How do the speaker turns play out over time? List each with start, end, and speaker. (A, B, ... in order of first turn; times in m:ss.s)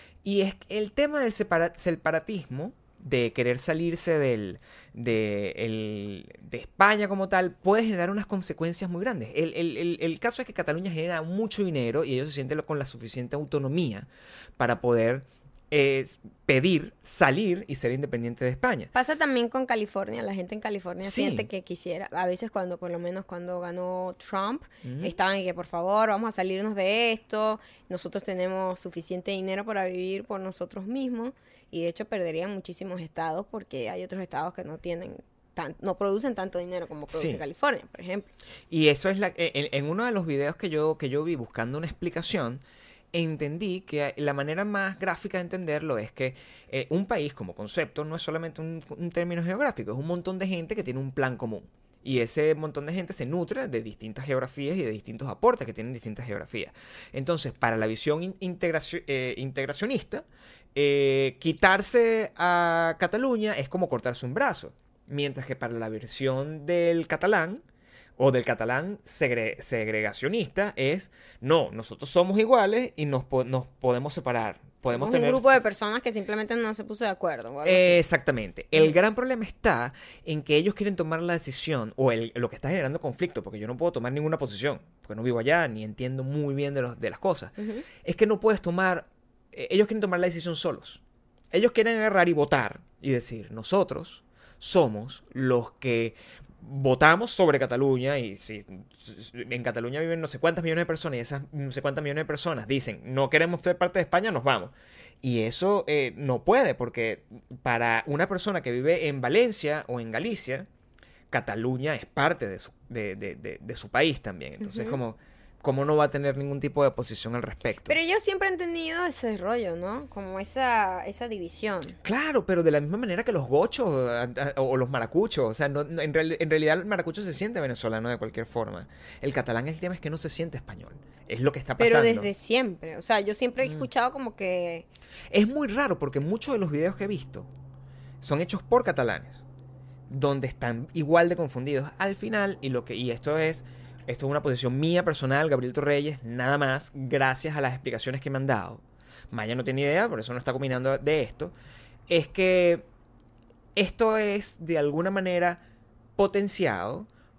0:00.2-0:18.9 A
0:18.9-0:38.3 B
0:21.0-0:21.5 A
0:24.8-0:25.2 A
0:37.1-0:37.4 A
0:38.7-1:07.6 A
1:08.2-1:15.6 A
1:14.9-1:18.0 B
1:17.6-1:31.0 A
1:27.6-1:27.8 B
1:31.5-1:50.7 A
1:51.3-1:58.0 A
1:54.6-1:55.0 B
1:57.9-2:02.0 B
2:02.0-2:12.3 A
2:11.8-2:14.9 B
2:13.6-2:13.9 A
2:15.3-2:17.5 A
2:18.2-2:19.4 A
2:20.1-2:31.5 A
2:32.1-2:32.9 A
2:33.8-2:35.6 A
2:36.2-2:37.1 A